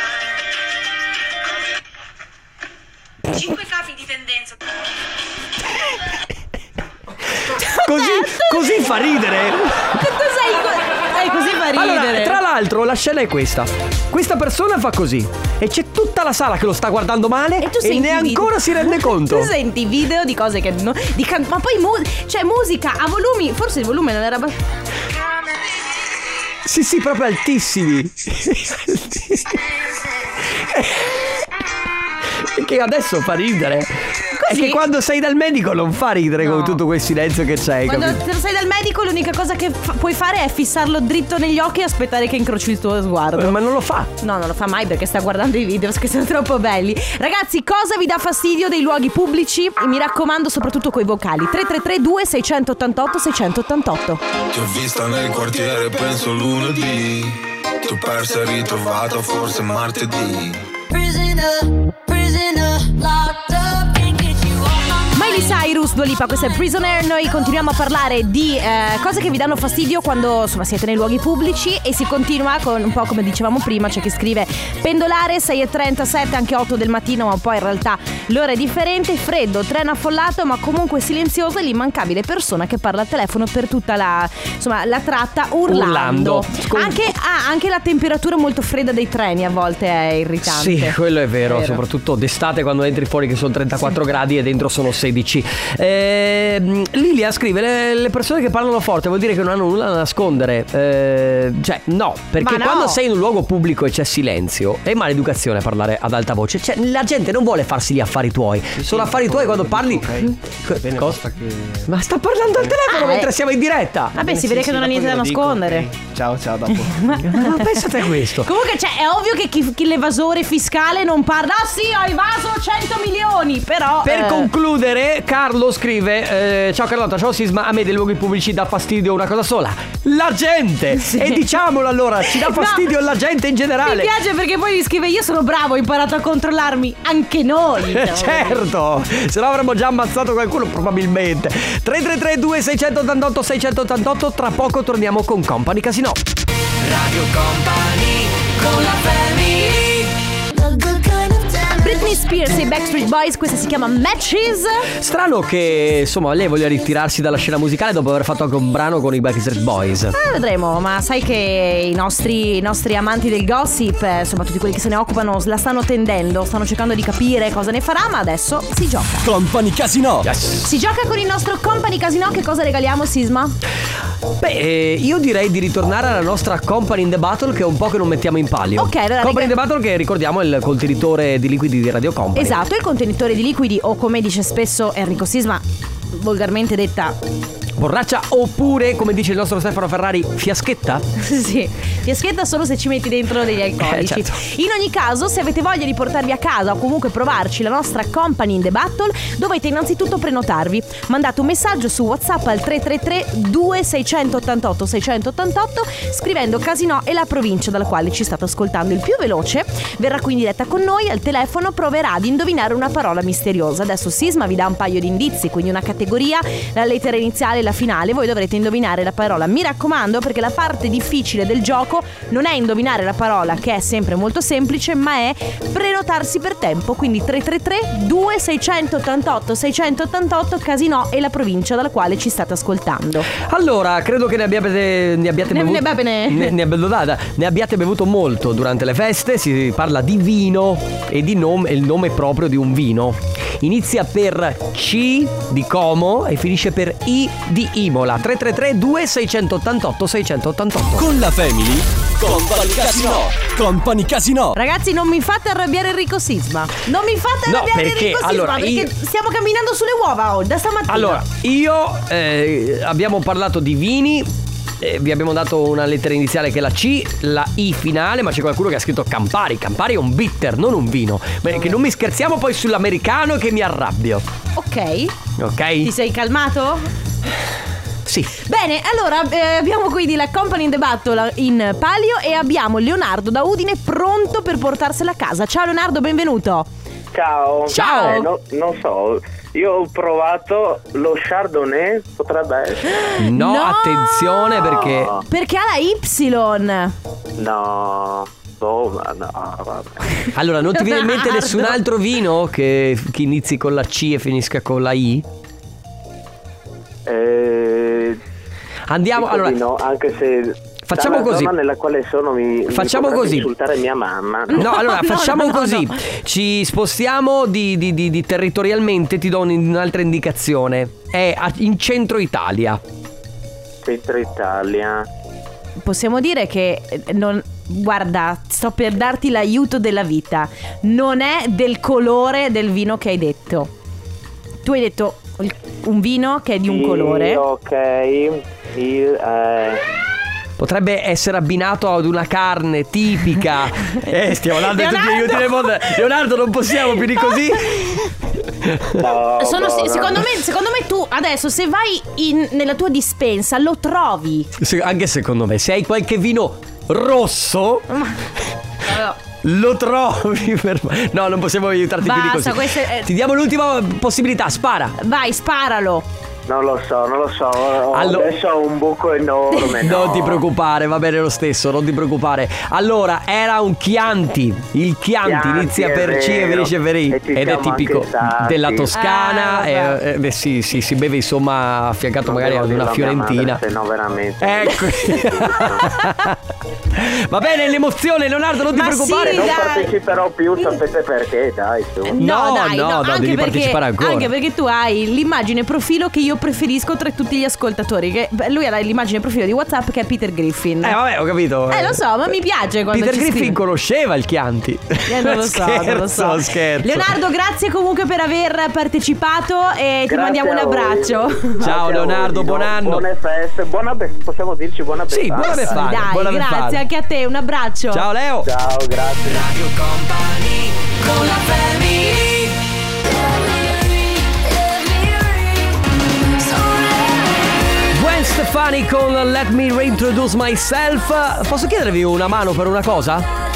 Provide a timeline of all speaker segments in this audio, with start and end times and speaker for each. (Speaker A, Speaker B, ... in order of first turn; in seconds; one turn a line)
Speaker A: 7.5-10.0
Speaker B: 7.6-8.9
Speaker B: 9.9-12.4
Speaker A: 11.7-19.5
Speaker B: 17.6-24.6
Speaker A: 26.6-29.6
Speaker A: 30.5-31.5
Speaker A: 32.3-38.2
Speaker B: 34.4-34.8
Speaker B: 36.4-36.8
Speaker B: 37.9-43.5
Speaker A: 43.4-44.1
Speaker B: 44.2-54.2
Speaker C: 54.5-60.7
Speaker D: 60.9-65.5
Speaker B: 65.1-91.8
Speaker A: 85.7-87.0
Speaker A: 90.4-111.2
Speaker B: 102.4-103.0
Speaker E: 108.8-111.9
Speaker A: 111.8-114.2
Speaker B: 112.8-113.3
Speaker B: 114.2-115.9
Speaker E: 114.2-117.2
Speaker B: 116.8-124.5
Speaker A: 117.2-118.5
Speaker A: 124.0-134.1
Speaker B: 130.9-131.5
Speaker B: 132.3-132.9
Speaker B: 133.8-138.6
Speaker A: 137.8-146.2
Speaker A: 146.8-150.1
Speaker D: 150.5-151.9
Speaker B: 151.8-154.9
Speaker A: 155.0-160.2
Speaker B: 160.1-169.3
Speaker F: 169.2-170.3
Speaker A: 170.3-170.6
Speaker B: 170.6-173.6
Speaker A: 174.4-182.6
Speaker B: 178.8-179.6
Speaker B: 182.3-187.2
Speaker A: 187.8-191.0
Speaker B: 191.2-233.3
Speaker A: 193.8-194.4
Speaker A: 233.4-251.1
Speaker B: 235.5-236.6
Speaker F: 250.9-254.6
Speaker B: 254.6-261.2
Speaker A: 257.5-258.9
Speaker A: 260.9-274.2
Speaker B: 274.6-275.1
Speaker A: 275.4-275.9
Speaker B: 275.8-276.9
Speaker A: 278.1-278.3
Speaker B: 278.4-286.7
Speaker G: 287.1-292.9
Speaker B: 287.7-288.3
Speaker A: 287.7-288.3
Speaker B: 293.0-296.9
Speaker A: 293.2-295.2
Speaker G: 294.6-295.2
Speaker G: 297.4-300.1
Speaker A: 300.3-305.3
Speaker B: 300.7-301.8
Speaker G: 307.1-308.2
Speaker A: 308.9-309.6
Speaker G: 309.2-314.6
Speaker A: 310.9-311.6
Speaker A: 312.7-313.5
Speaker B: 314.5-315.9
Speaker A: 314.5-322.8
Speaker G: 323.8-325.1
Speaker B: 325.8-333.7
Speaker B: 334.6-337.4
Speaker G: 336.6-339.8
Speaker A: 340.6-348.1
Speaker B: 344.7-345.8
Speaker A: 348.6-349.0
Speaker G: 349.0-350.3
Speaker B: 349.4-354.5
Speaker A: 354.6-357.9
Speaker B: 357.9-358.2
Speaker B: 358.9-359.2
Speaker A: 359.4-364.9
Speaker B: 362.0-363.1
Speaker B: 365.0-366.1
Speaker G: 366.5-370.4
Speaker A: 367.9-368.4
Speaker B: 369.5-369.9
Speaker A: 369.8-383.6
Speaker G: 375.2-378.9
Speaker B: 378.9-380.0
Speaker G: 382.3-385.9
Speaker A: 384.4-386.4
Speaker A: 386.9-389.6
Speaker B: 388.7-389.9
Speaker G: 389.3-392.2
Speaker B: 392.1-401.0
Speaker A: 392.2-394.3
Speaker A: 400.8-402.0
Speaker B: 401.7-403.6
Speaker A: 402.9-407.2
Speaker B: 405.1-411.7
Speaker G: 410.1-415.9
Speaker A: 411.6-413.1
Speaker A: 415.1-416.8
Speaker B: 415.4-418.1
Speaker A: 417.9-418.5
Speaker G: 418.4-419.5
Speaker A: 419.2-422.6
Speaker D: 423.1-427.6
Speaker A: 427.9-433.3